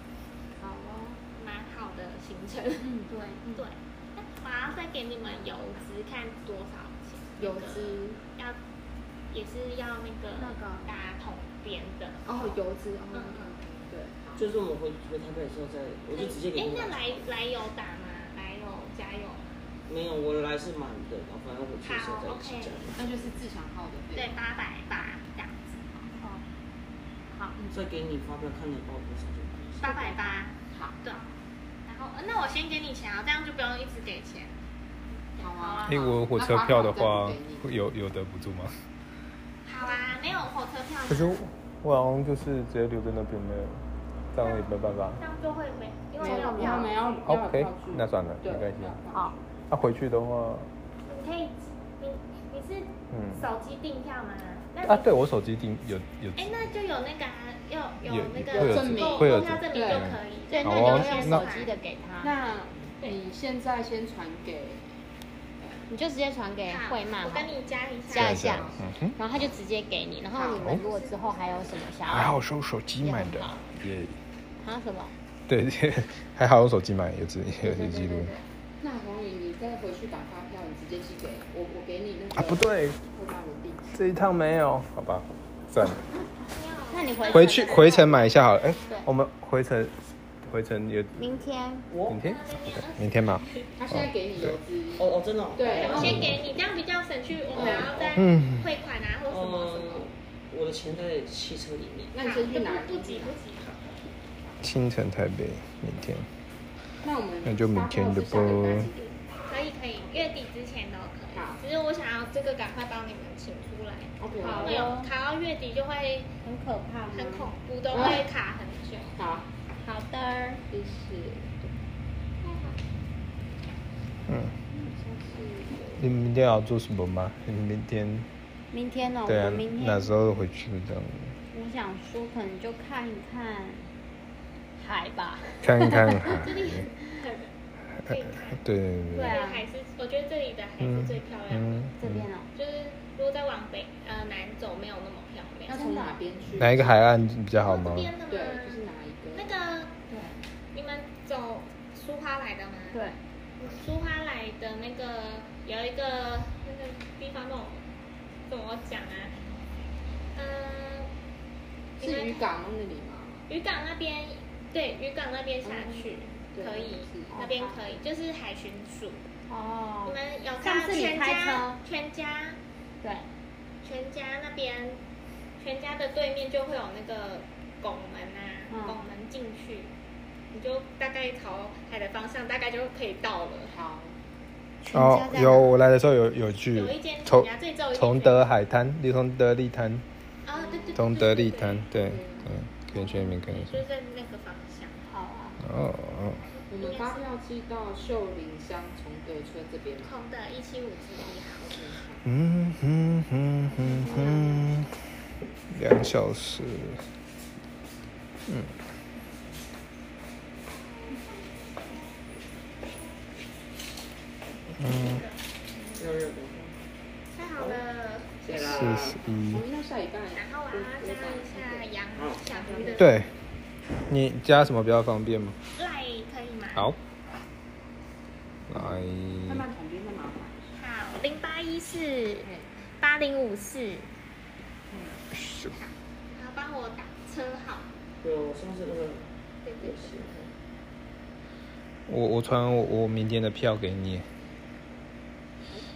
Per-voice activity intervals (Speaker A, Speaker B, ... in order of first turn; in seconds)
Speaker A: 0.6-1.2, 3.0-3.4, 10.4-10.9, 27.3-27.6, 29.8-30.4, 46.2-47.0, 60.5-62.4, 65.9-67.6, 68.1-72.4, 73.0-73.6, 74.6-75.2, 77.6-78.4, 86.1-88.3, 91.2-91.9, 114.4-115.1, 116.4-117.5, 119.8-120.6, 128.7-130.2, 131.5-133.9, 134.8-136.4, 139.1-139.7, 142.0-142.5, 145.7-146.2, 152.9-153.2, 167.3-167.8, 169.5-171.8, 173.0-173.3, 178.7-179.0, 184.8-185.8, 195.1-195.7
Speaker B: 1.4-2.9, 3.5-8.6, 9.3-12.6, 13.1-13.6, 16.1-19.6, 21.8-22.9, 24.1-26.1, 29.8-31.3, 31.9-34.6, 35.4-36.2, 39.6-41.4, 44.4-47.2, 51.0-55.1, 56.4-61.7, 66.7-68.5, 86.5-89.0, 92.2-93.7, 95.7-100.1, 102.2-103.9, 109.5-116.3, 117.1-119.2, 122.4-122.8, 136.4-137.5, 138.1-138.6, 139.2-141.9, 142.5-145.8, 147.6-148.8, 149.3-149.9, 150.7-153.0, 153.6-157.8, 158.5-159.4, 160.3-161.1, 162.0-162.4, 163.5-169.3, 170.1-172.6, 173.8-175.0, 175.6-179.9, 180.5-183.8, 186.7-188.5, 190.4-191.9, 193.0-195.1, 196.5-197.3, 200.0-201.8, 214.8-216.1, 217.3-218.6, 220.3-223.2, 225.8-226.9, 230.8-234.1, 235.7-237.9, 239.6-240.2
Speaker C: 2.8-3.7, 7.4-8.2, 12.2-14.4, 23.0-24.4, 30.7-31.0, 35.4-37.7, 46.2-49.5, 58.5-60.1, 62.2-65.0, 65.6-65.8, 68.5-68.8, 70.3-71.8, 78.8-83.9, 93.8-96.3, 97.5-98.0, 102.1-103.4, 107.0-109.2, 111.3-111.6, 114.2-114.9, 117.9-118.2, 119.2-119.5, 120.7-121.8, 124.7-126.1, 145.7-147.2, 148.3-149.6, 162.0-163.5, 165.6-167.4, 183.7-184.2, 190.6-191.0, 192.0-192.5, 196.7-200.1, 201.7-202.2, 203.8-204.5, 218.7-221.9, 222.6-223.1, 228.8-230.8, 232.4-232.7, 234.9-235.2
Speaker D: 14.4-17.2, 19.9-23.0, 27.6-29.8, 91.9-92.2, 95.0-96.3, 97.6-98.2, 99.3-102.2, 216.0-216.8, 217.6-217.8, 218.4-219.2, 222.2-223.0, 238.2-239.3, 239.8-240.5
Speaker E: 35.9-38.7, 41.1-45.2, 47.3-49.0, 49.7-50.7, 53.1-53.4, 54.8-56.5, 58.0-61.5, 68.1-69.2, 72.1-74.2, 75.5-78.3, 82.3-83.0, 83.9-86.0, 87.3-91.3, 92.1-92.4, 93.0-94.6, 96.0-96.3, 98.2-98.7, 104.6-106.3, 107.4-108.9, 124.3-124.5, 126.0-128.3, 129.3-131.4, 135.6-136.9, 138.0-139.4, 140.8-142.3, 146.6-148.2, 184.9-190.0, 190.9-193.8, 195.6-196.4, 202.2-204.9, 205.7-207.0, 208.5-208.8, 214.8-215.2, 218.5-219.7, 223.0-223.3, 224.1-225.6, 228.7-229.7, 235.3-235.8, 242.1-244.3